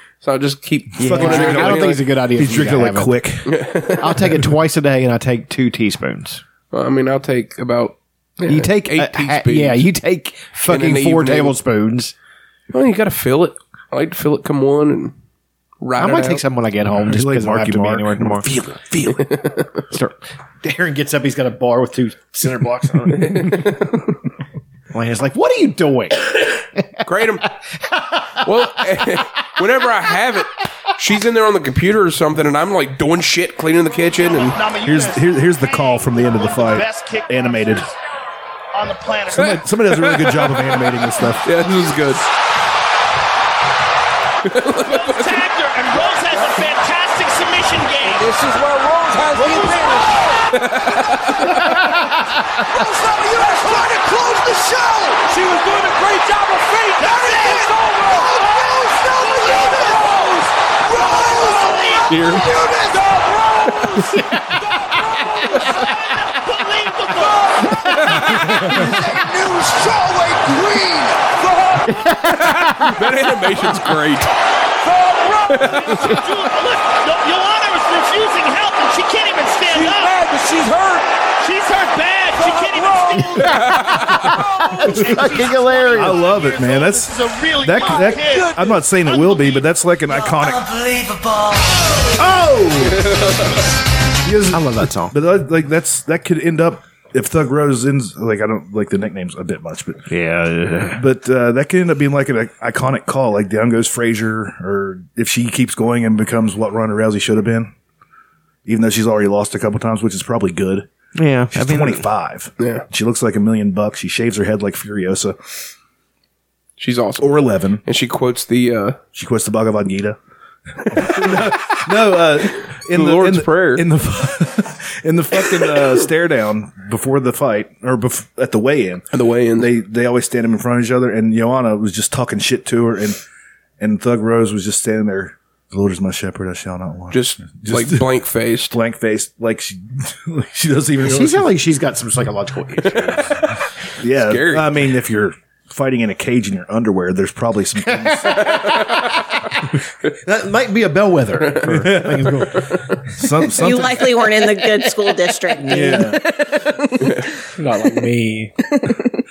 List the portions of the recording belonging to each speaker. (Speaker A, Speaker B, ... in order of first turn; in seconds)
Speaker A: 0.2-2.0, 3.5-4.4, 6.7-9.9, 10.7-11.6, 12.7-15.1, 15.8-16.4, 19.2-19.6, 23.2-23.9, 27.0-27.4, 28.4-34.6, 39.3-40.5, 41.4-42.2, 44.5-45.4, 48.2-48.5, 49.3-49.7, 50.5-51.7, 62.1-62.5, 67.9-68.7, 72.3-74.3, 75.5-75.9, 83.3-84.3, 92.9-93.6, 112.6-112.8, 116.8-119.0, 120.9-121.8, 122.8-123.8, 129.1-129.7, 137.1-138.8, 142.8-143.2, 144.2-144.7
Speaker B: 1.0-3.1, 4.0-6.4, 8.4-12.1, 16.0-18.5, 19.9-23.8, 24.9-27.0, 72.0-72.7, 84.8-86.2, 94.5-95.1, 100.1-101.0, 111.2-112.0, 141.0-143.6, 147.9-152.8, 154.3-154.7, 155.5-156.3, 157.4-158.5
Speaker C: 1.0-3.6, 16.9-19.3, 34.8-37.9, 39.3-41.5, 85.9-90.7, 92.1-93.1, 94.2-100.1, 100.9-107.7, 108.7-110.9, 111.5-115.4, 117.2-117.8, 119.1-120.2, 120.9-133.2, 133.8-138.1, 138.7-141.5, 144.0-148.8, 151.6-152.5, 153.1-154.2, 155.7-156.2
Speaker D: 34.0-35.3, 36.0-37.9, 38.7-40.0, 41.2-42.2, 44.8-50.4, 51.5-72.1, 74.8-92.2
Speaker E: 153.6-157.2, 158.7-159.0